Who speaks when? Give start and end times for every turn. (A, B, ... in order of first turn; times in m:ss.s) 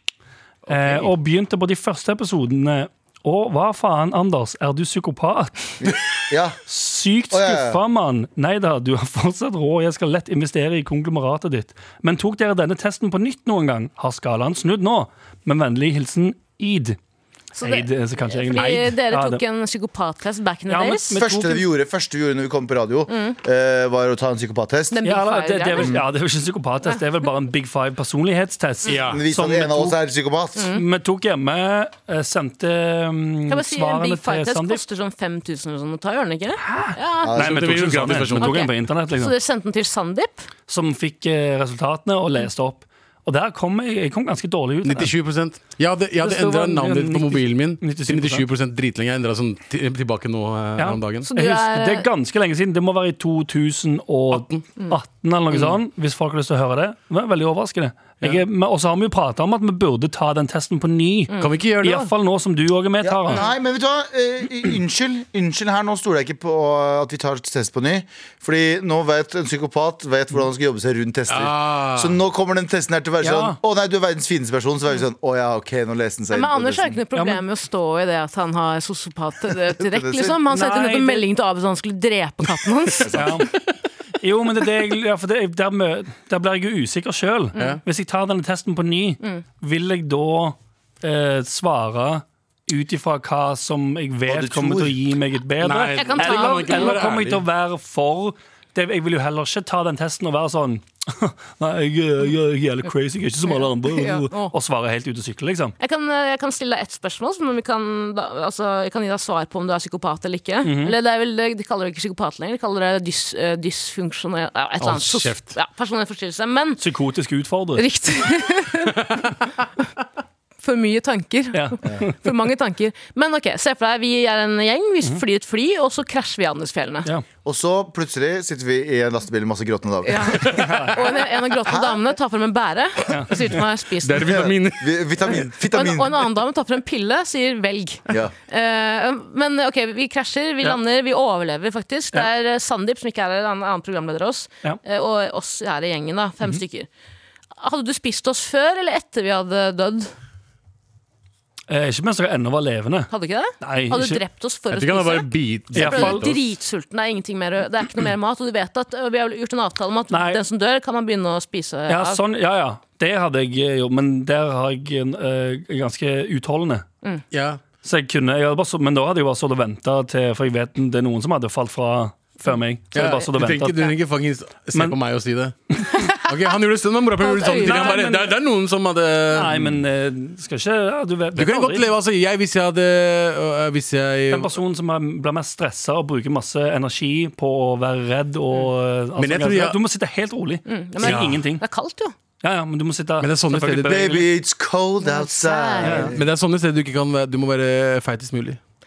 0:00.7-0:01.1 A
0:00.7-0:05.7 B
0:05.8-0:06.6 C
0:06.7-0:17.0 B
0:07.3-0:07.8 C
0:17.6-0:21.2 D
0:17.6-0:19.4 B
0:20.7-0:21.6 B
0:21.1-0:25.0 C
0:23.1-0:23.4 D
0:24.9-0:26.0 D
0:25.0-0:30.0 B
0:25.8-0:26.1 C
0:28.8-0:29.2 A
0:29.1-0:30.7 C
0:30.6-0:30.8 D
0:30.7-0:34.8 B
0:33.5-0:37.5 D
0:36.6-0:39.4 B
0:37.2-0:37.7 C
0:37.4-0:38.6 A
0:38.1-0:40.5 D
0:40.7-0:45.1 B
0:44.8-0:51.3 A
0:46.2-0:48.4 B
0:50.8-1:03.5 B
0:51.3-0:52.1 D
0:54.3-0:54.6 A
0:55.5-0:55.8 A
1:01.4-1:02.1 A
1:03.0-1:17.0 C
1:11.3-1:12.2 A
1:13.2-1:13.6 B
1:16.3-1:23.1 D
1:17.1-1:17.4 B
1:19.8-1:20.4 C
1:20.5-1:21.3 B
1:23.1-1:23.5 C
1:23.1-1:23.5 B
1:24.2-1:45.7 B
1:27.5-1:27.8 D
1:34.3-1:35.0 C
1:35.6-1:37.4 A
1:36.0-1:37.0 D
1:43.4-1:44.5 D
1:45.8-1:56.8 D
1:50.6-1:51.0 B
1:54.8-1:55.6 A
1:56.8-1:57.8 B
1:57.8-1:59.0 D
2:00.6-2:07.1 D
2:01.5-2:02.1 B
2:07.4-2:10.6 C
2:10.0-2:14.5 D
2:10.6-2:11.0 B
2:11.7-2:12.0 C
2:13.1-2:13.4 B
2:14.0-2:15.0 A
2:14.4-2:16.3 C
2:15.3-2:26.9 D
2:18.1-2:18.3 C
2:27.6-2:30.1 D
2:31.7-2:34.2 B
2:33.1-2:42.2 D
2:34.7-2:36.4 A
2:35.7-2:36.4 B
2:40.1-2:40.4 B
2:41.9-2:46.9 B
2:47.3-2:47.6 A
2:47.8-2:53.9 B
2:52.9-2:59.8 A
2:55.7-2:56.0 B
2:57.2-2:58.0 D
2:57.4-2:58.4 B
2:59.3-3:01.9 B
3:01.4-3:04.5 A
3:04.3-3:11.6 B
3:09.2-3:09.8 A
3:10.7-3:12.1 D
3:11.0-3:11.5 A
3:12.4-3:14.3 B
3:13.2-3:14.2 A
3:13.9-3:16.2 C
3:15.0-3:16.1 D
3:15.8-3:16.1 B
3:16.1-3:18.6 A